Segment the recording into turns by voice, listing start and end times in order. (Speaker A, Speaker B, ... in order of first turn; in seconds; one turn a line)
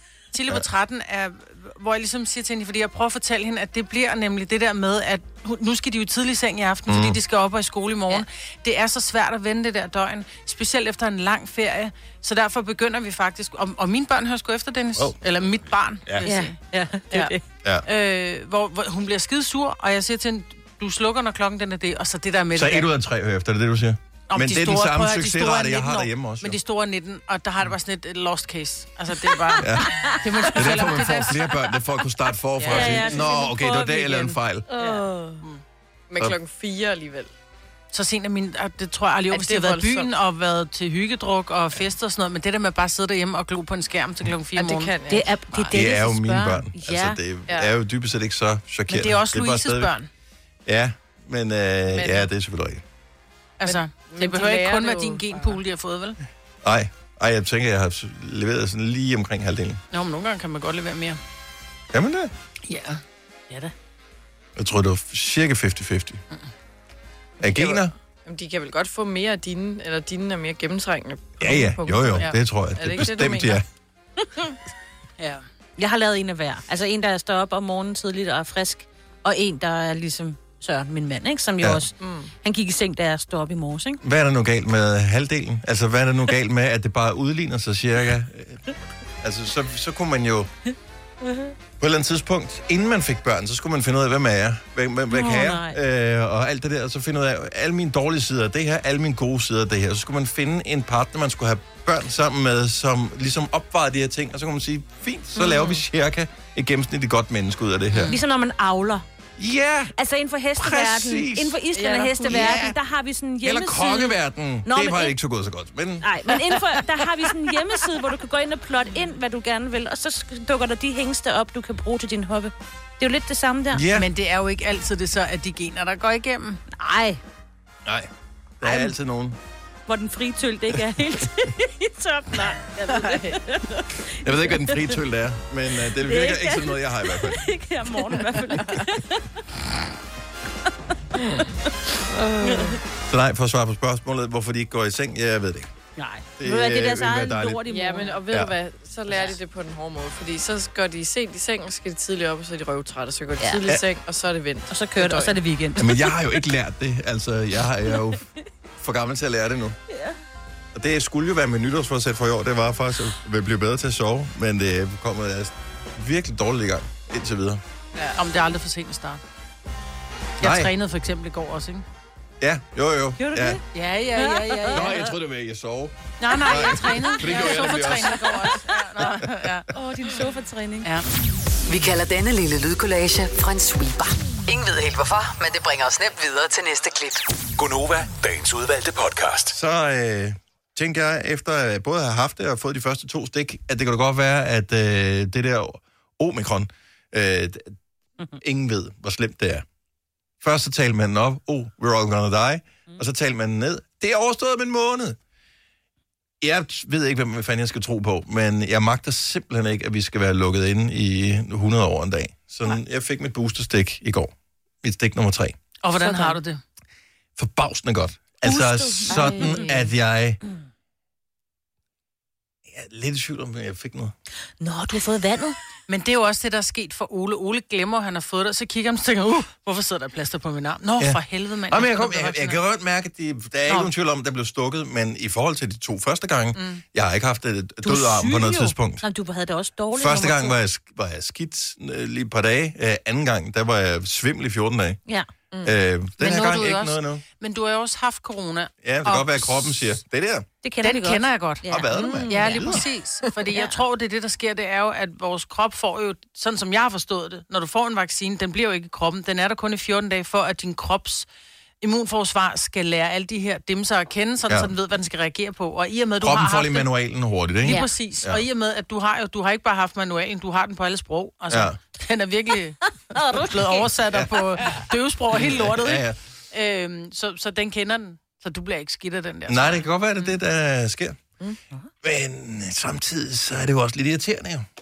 Speaker A: 0.3-16.6
Speaker B: 6.9-7.2
Speaker C: 16.2-17.4
Speaker A: 17.8-22.9
Speaker B: 22.5-26.6
Speaker A: 24.3-31.5
Speaker C: 29.5-30.7
Speaker B: 29.6-29.9
Speaker B: 30.5-34.7
Speaker D: 32.6-33.2
Speaker C: 32.6-35.3
Speaker D: 34.8-35.4
Speaker D: 36.1-37.3
Speaker A: 37.9-45.0
Speaker D: 39.3-40.1
Speaker D: 44.5-45.8
Speaker C: 45.1-47.2
Speaker B: 45.7-49.9
Speaker A: 48.9-50.1
Speaker B: 50.6-52.8
Speaker D: 51.9-52.3
Speaker A: 53.6-56.2
Speaker D: 53.6-55.6
Speaker B: 56.6-59.8
Speaker A: 59.9-61.2
Speaker B: 61.9-62.3
Speaker A: 62.7-63.7
Speaker B: 64.5-66.2
Speaker D: 67.4-73.6
Speaker B: 67.4-67.9
Speaker B: 71.4-73.6
Speaker A: 75.2-75.4
Speaker C: 75.8-84.0
Speaker D: 82.0-82.3
Speaker B: 84.0-88.6
Speaker B: 89.2-90.5
Speaker C: 91.2-91.5
Speaker B: 91.8-108.2
Speaker C: 95.1-95.8
Speaker D: 105.4-105.8
Speaker A: 107.9-108.2
Speaker C: 108.0-109.0
Speaker B: 109.4-109.9
Speaker C: 110.0-115.2
Speaker B: 110.6-111.6
Speaker D: 111.7-112.6
Speaker B: 112.2-112.8
Speaker B: 113.4-116.1
Speaker C: 116.0-123.8
Speaker B: 123.7-124.1
Speaker A: 123.9-126.6
Speaker C: 126.7-127.2
Speaker B: 128.6-129.4
Speaker C: 128.6-128.9
Speaker C: 129.9-134.9
Speaker D: 132.9-133.4
Speaker B: 134.2-137.4
Speaker C: 136.0-139.3
Speaker D: 142.1-142.8
Speaker B: 143.1-145.7
Speaker C: 146.0-148.2
Speaker B: 146.4-147.6
Speaker D: 147.7-155.3
Speaker C: 153.4-153.6
Speaker C: 154.7-156.1
Speaker B: 155.8-158.2
Speaker B: 158.8-159.8
Speaker C: 159.9-160.1
Speaker B: 160.7-167.6
Speaker D: 167.9-168.2
Speaker A: 168.1-169.2
Speaker A: 170.4-171.8
Speaker B: 170.4-170.7
Speaker B: 172.4-173.6
Speaker C: 173.2-173.6
Speaker A: 173.7-175.0
Speaker C: 174.1-175.1
Speaker B: 174.7-179.2
Speaker A: 176.2-179.7
Speaker C: 179.7-180.9
Speaker E: 181.7-187.2
Speaker F: 187.6-189.5
Speaker B: 189.5-197.7
Speaker B: 198.4-199.6
Speaker B: 200.4-205.2
Speaker B: 206.4-214.3
Speaker B: 214.8-215.6
Speaker A: 215.8-216.6
Speaker C: 215.9-216.4
Speaker B: 217.4-220.4
Speaker C: 218.4-219.7
Speaker D: 219.1-219.9
Speaker B: 222.7-224.1
Speaker C: 224.6-225.6
Speaker A: 225.9-232.6
Speaker B: 231.0-239.0
Speaker A: 236.5-236.8
Speaker C: 237.8-240.6
Speaker B: 239.9-245.0
Speaker B: 245.6-247.2
Speaker A: 246.2-249.8
Speaker B: 248.8-250.5
Speaker C: 250.6-252.8
Speaker A: 250.8-261.3
Speaker B: 251.7-252.8
Speaker D: 251.9-252.6
Speaker C: 253.5-253.8
Speaker A: 261.8-266.9
Speaker B: 266.2-268.4
Speaker A: 267.6-272.8
Speaker B: 271.5-271.8
Speaker C: 273.1-273.8
Speaker A: 273.3-279.9
Speaker B: 274.1-274.8
Speaker B: 275.3-276.2
Speaker B: 279.5-281.2
Speaker B: 282.0-284.6